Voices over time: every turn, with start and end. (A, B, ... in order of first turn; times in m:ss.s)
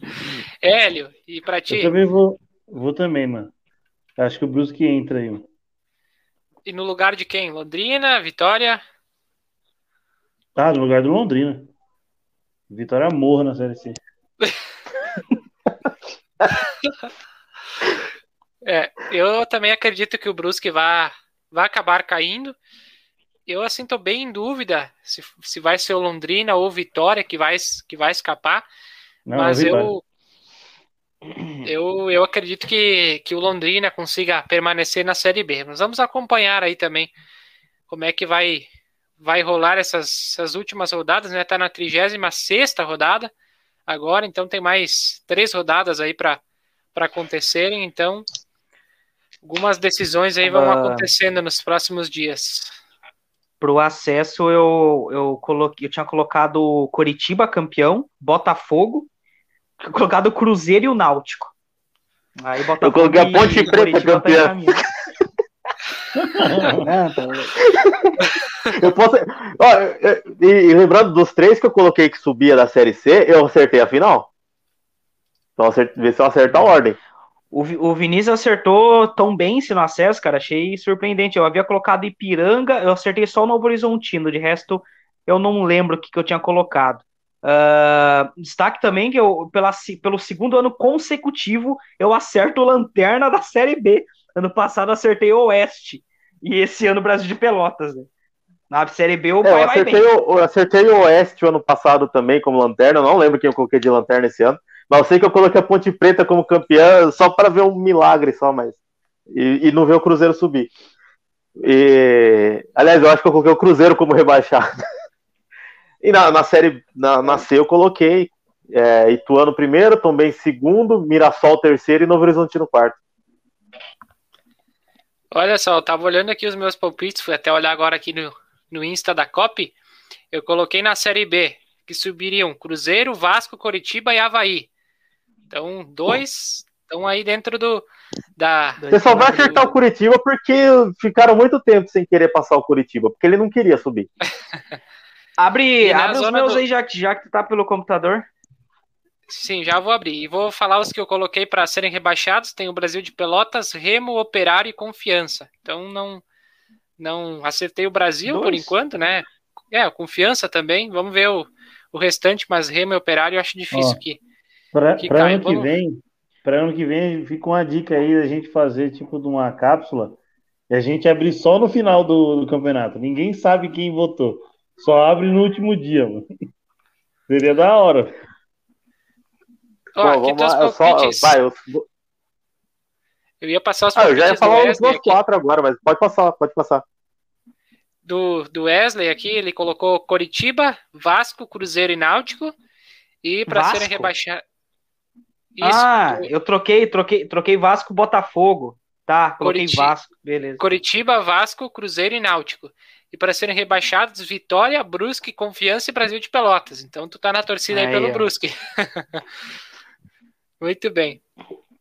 0:00.6-0:01.9 A
0:01.7-0:03.5 B
0:04.2-0:05.4 B
0:06.6-0:08.8 A
0:10.6-0:11.7 B
0:12.7-0:14.0 B
0:18.6-0:22.6 A
0:23.5-0:28.6 A
0:29.3-0:29.9 B
0:29.3-0:30.0 A
0:31.6-0:37.1 A
0:37.9-0:38.6 A
0:39.2-0:43.3 A
0:43.9-0:46.4 A
0:46.9-0:48.3 A
0:49.4-0:52.7 A
0:50.4-0:51.1 C
0:53.6-0:59.1 C
0:59.8-1:01.5 C
1:02.4-1:04.9 C
1:02.8-1:04.7 D
1:06.2-1:06.9 B
1:06.8-1:07.6 C
1:07.7-1:08.1 D
1:08.7-1:14.3 D
1:15.6-1:17.0 D
1:17.5-1:38.1 C
1:38.7-1:40.1 C
1:39.4-1:48.8 D
1:49.3-1:50.7 D
1:51.6-1:54.7 D
1:56.0-2:03.0 D
2:05.3-2:09.7 A
2:10.3-2:14.7 A
2:15.5-2:17.8 A
2:18.4-2:18.8 A
2:18.8-2:19.7 C
2:18.9-2:24.1 D
2:25.4-2:28.3 C
2:25.8-2:26.6 A
2:29.3-2:36.2 A
2:37.0-2:44.2 A
2:38.2-2:38.7 C
2:43.7-2:44.0 B
2:44.7-2:50.2 B
2:45.0-2:45.7 A
2:50.7-2:56.2 B
2:57.3-2:58.1 B
3:00.0-3:01.4 A
3:00.0-3:01.8 D
3:03.4-3:05.2 A
3:03.9-3:06.8 D
3:08.0-3:12.5 A
3:13.2-3:14.4 A
3:13.5-3:14.1 C
3:15.5-3:16.3 A
3:15.6-3:20.6 C
3:19.4-3:19.9 A
3:20.6-3:29.2 A
3:27.7-3:28.3 C
3:30.6-3:31.2 A